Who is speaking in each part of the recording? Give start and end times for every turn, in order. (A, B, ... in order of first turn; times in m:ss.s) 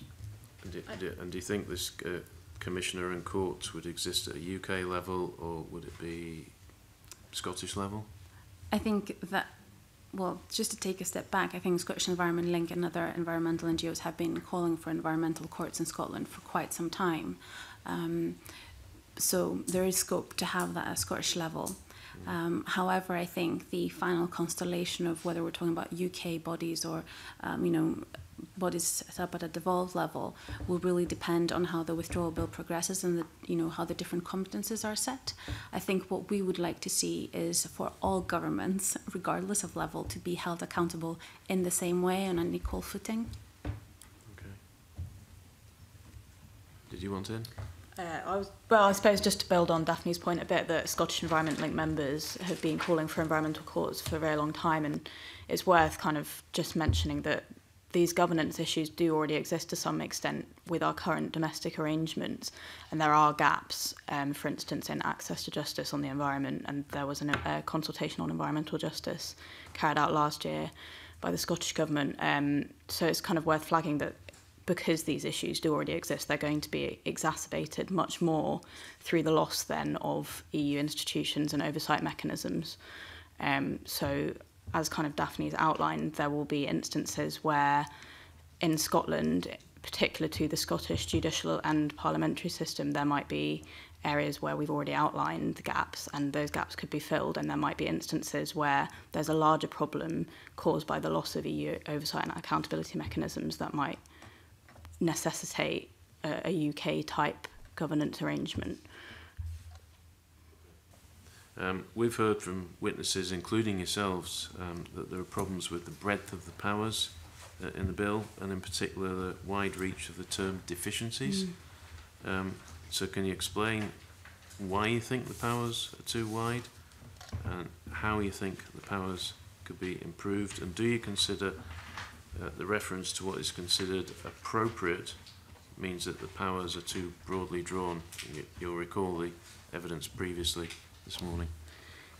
0:00.6-0:08.1 A
0:08.7-0:43.4 B
0:44.2-0:44.6 A
0:46.9-0:47.5 A
0:48.0-1:27.9 C
1:28.6-1:49.0 C
1:51.4-2:21.5 A
2:01.2-2:01.6 C